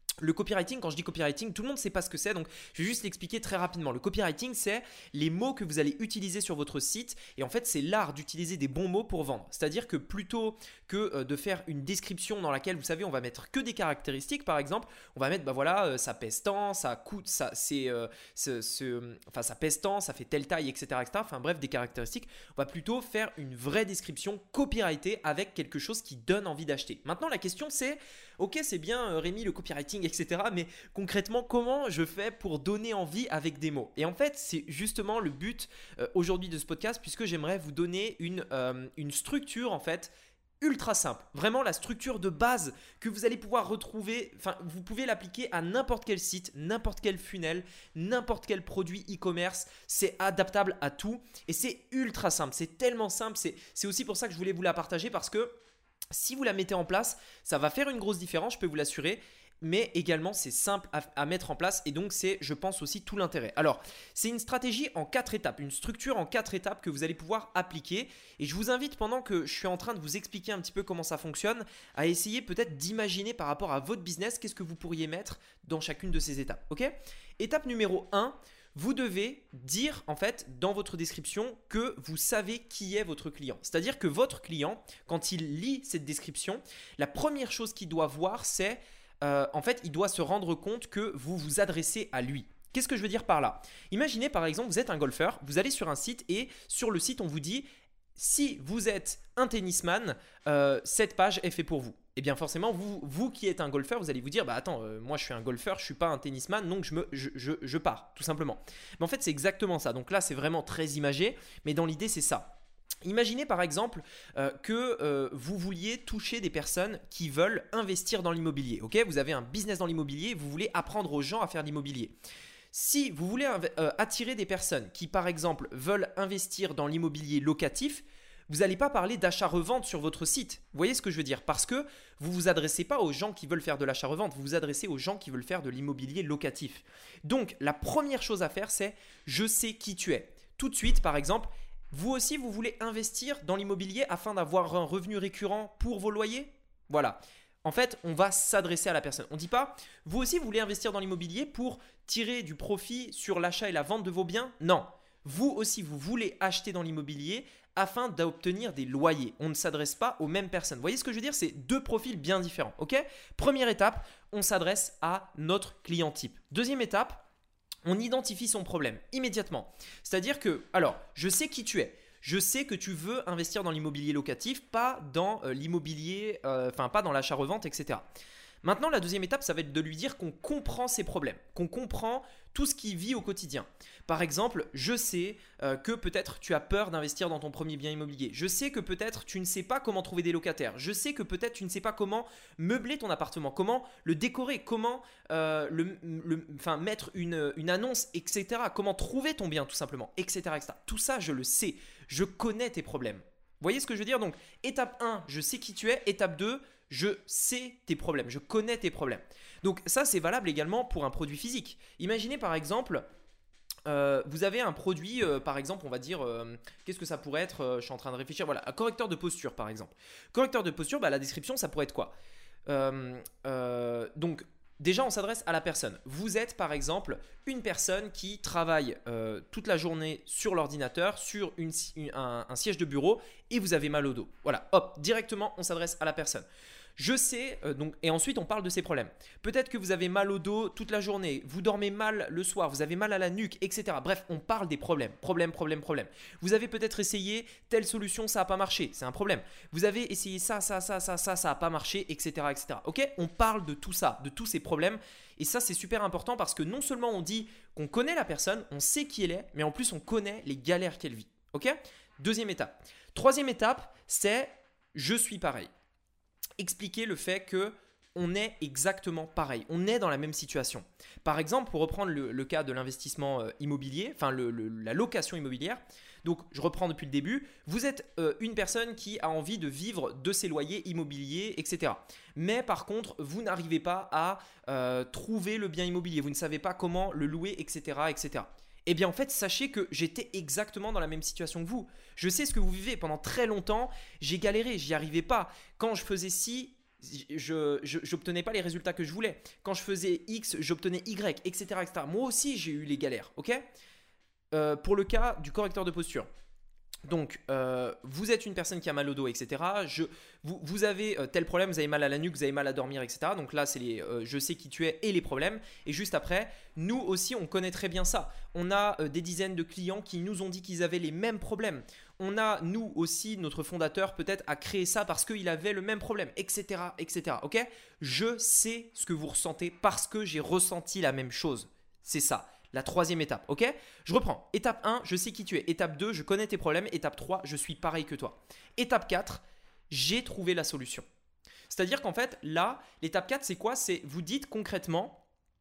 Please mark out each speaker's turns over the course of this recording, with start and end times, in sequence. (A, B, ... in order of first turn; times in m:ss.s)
0:00.2-0:55.5 A
0:56.1-1:37.6 A
1:38.2-2:02.1 A
2:02.7-2:47.2 A
2:47.8-2:58.0 A
2:58.6-3:33.0 A
3:33.8-3:42.1 A
3:42.7-3:56.4 A
3:57.0-4:25.7 A
4:26.6-5:03.6 A
5:04.5-5:06.3 A
5:07.1-5:41.0 A
5:41.7-5:45.2 A